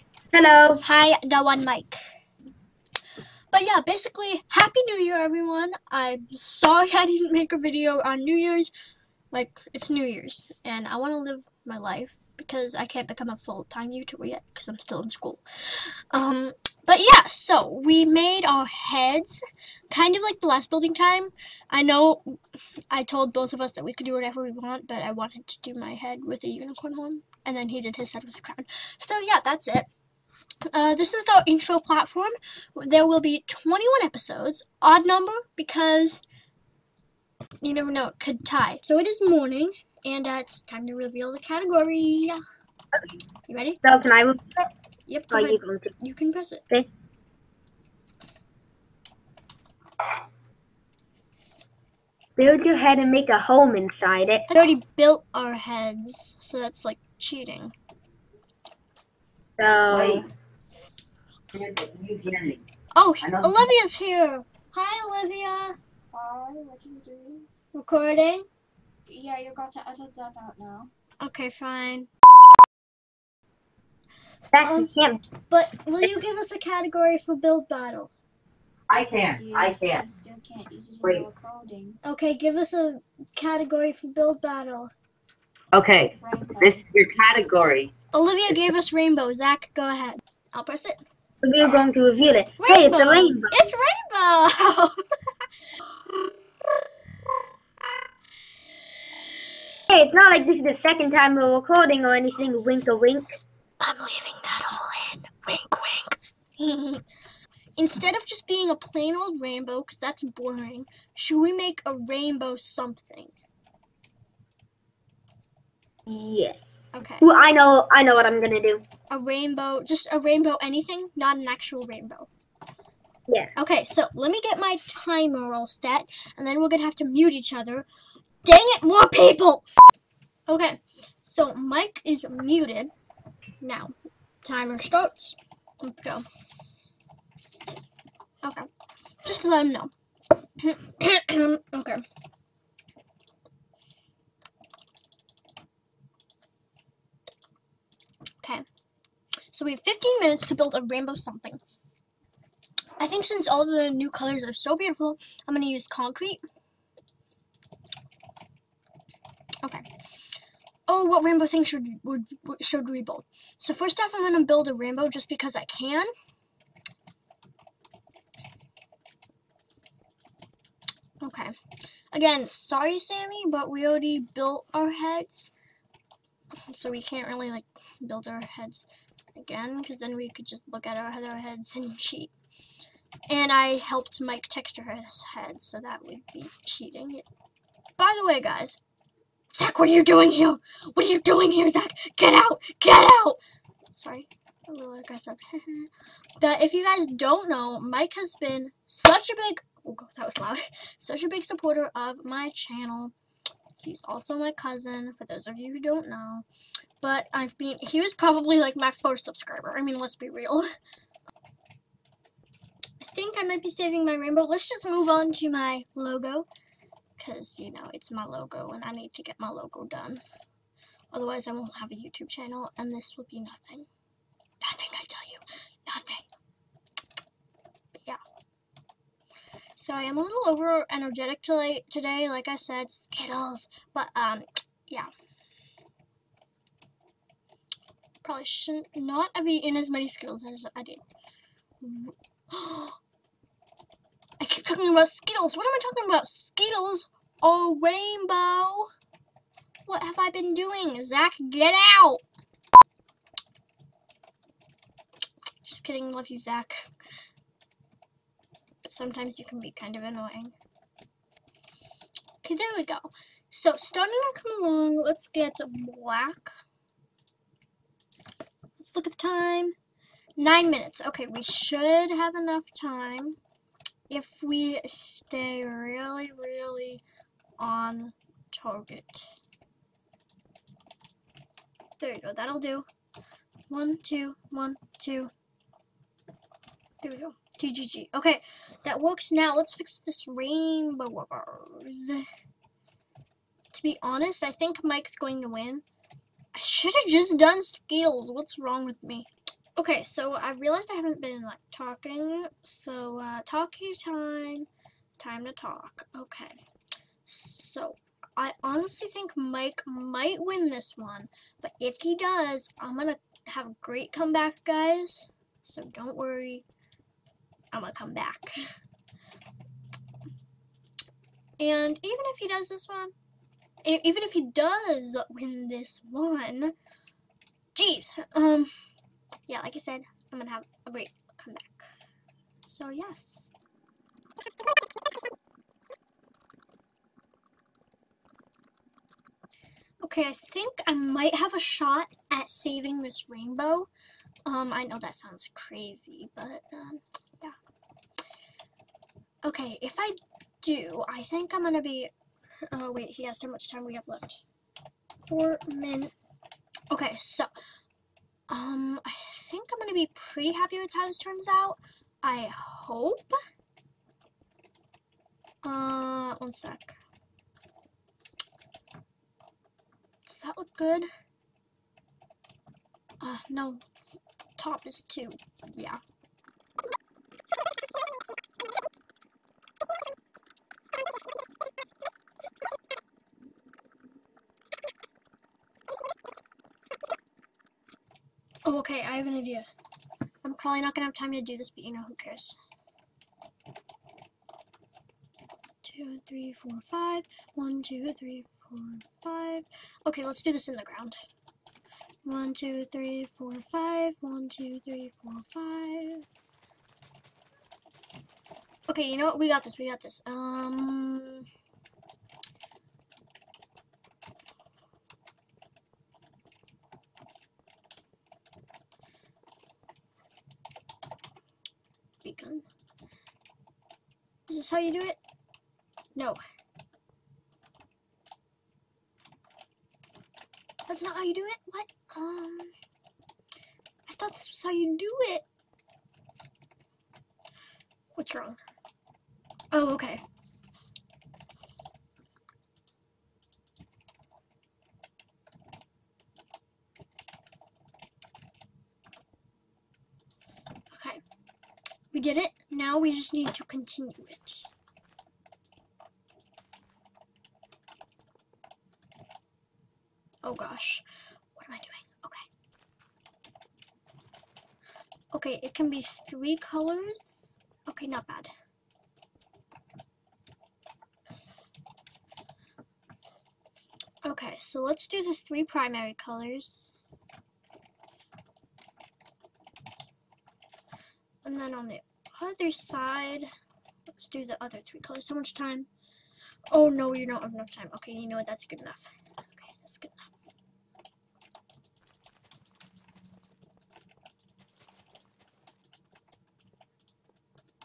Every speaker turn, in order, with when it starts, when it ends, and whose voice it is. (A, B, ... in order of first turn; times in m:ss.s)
0:00.3-0:00.8 A
0:00.8-0:02.0 B
0:03.5-0:08.7 B
0:09.3-0:22.4 B
0:22.9-0:29.9 B
0:30.7-0:36.2 B
0:37.6-0:42.4 B
0:43.5-0:43.8 B
0:43.8-0:44.7 A
0:45.1-0:46.6 B
0:45.3-0:45.9 A
0:52.4-0:54.5 A
0:54.5-0:57.7 B
0:59.6-1:00.2 A
0:59.9-1:00.3 C
1:01.5-1:02.6 C
1:03.0-1:05.8 B
1:03.2-1:03.7 C
1:06.1-1:07.5 D
1:07.7-1:08.5 B
1:09.1-1:10.9 D
1:11.2-1:12.1 B
1:14.5-1:15.2 A
1:14.6-1:14.9 B
1:15.5-1:18.1 B
1:18.9-1:20.0 C
1:19.3-1:22.0 D
1:22.0-1:24.9 B
1:25.7-1:27.9 C
1:26.2-1:26.8 D
1:28.1-1:31.0 B
1:31.4-1:33.7 A
1:32.6-1:35.0 B
1:39.9-1:43.4 A
1:43.8-1:47.0 B
1:47.8-1:53.3 B
1:56.1-1:56.7 A
1:56.9-1:57.3 B
1:57.2-1:58.8 A
1:59.1-2:02.3 B
2:03.6-2:07.9 B
2:08.4-2:09.7 B
2:10.5-2:12.9 B
2:13.6-2:16.2 B
2:18.4-2:18.7 B
2:19.2-2:19.9 B
2:20.6-2:22.0 B
2:29.5-2:31.6 B
2:33.0-2:36.4 B
2:40.9-2:46.1 B
2:51.2-2:51.5 B
2:52.1-2:55.5 B
2:56.7-3:02.3 B
3:03.3-3:07.3 B
3:08.0-3:08.8 B
3:09.5-3:13.4 B
3:13.9-3:23.1 B
3:23.8-3:26.4 B
3:27.0-3:30.7 B
3:33.0-3:36.5 B
3:37.2-3:40.2 B
3:41.1-3:43.9 B
3:44.6-3:46.3 B
3:49.8-3:55.1 B
3:58.2-4:01.0 B
4:01.8-4:03.0 B
4:04.4-4:08.9 B
4:09.9-4:12.2 B
4:15.6-4:16.9 B
4:18.8-4:20.5 B
4:22.4-4:26.5 B
4:28.8-4:29.8 B
4:30.4-4:33.4 B
4:34.1-4:37.0 B
4:37.6-4:39.3 B
4:42.0-4:42.9 B
4:43.7-4:45.3 B
4:47.0-4:52.3 B
4:53.7-4:55.8 B
4:56.6-5:06.6 B
5:07.3-5:16.6 B
5:17.7-5:18.5 B
5:21.6-5:23.1 B
5:23.8-5:26.7 B
5:27.8-5:28.7 B
5:29.5-5:31.9 B
5:32.6-5:33.5 B
5:40.0-5:43.9 B
5:44.5-5:47.6 B
5:49.4-5:52.1 B
5:52.7-5:54.4 B
5:55.2-5:56.1 B
5:56.9-5:57.5 B
5:58.5-6:03.3 B
6:05.6-6:07.0 B
6:10.3-6:11.1 B
6:13.2-6:16.0 B
6:28.6-6:29.7 B
6:30.4-6:32.6 B
6:35.8-6:41.2 B
6:42.2-6:46.3 B
6:48.9-6:51.5 B
7:02.2-7:02.7 B
7:04.5-7:05.2 B
7:10.9-7:12.7 B
7:14.1-7:15.4 B
7:18.2-7:18.6 B
7:19.7-7:20.2 B
7:30.9-7:31.2 B
7:32.1-7:34.7 B
7:40.4-7:41.0 B
7:41.6-7:42.5 B
7:45.3-7:48.5 B
7:54.2-7:56.9 B
8:01.4-8:03.5 B
8:04.1-8:05.9 B
8:06.7-8:10.3 B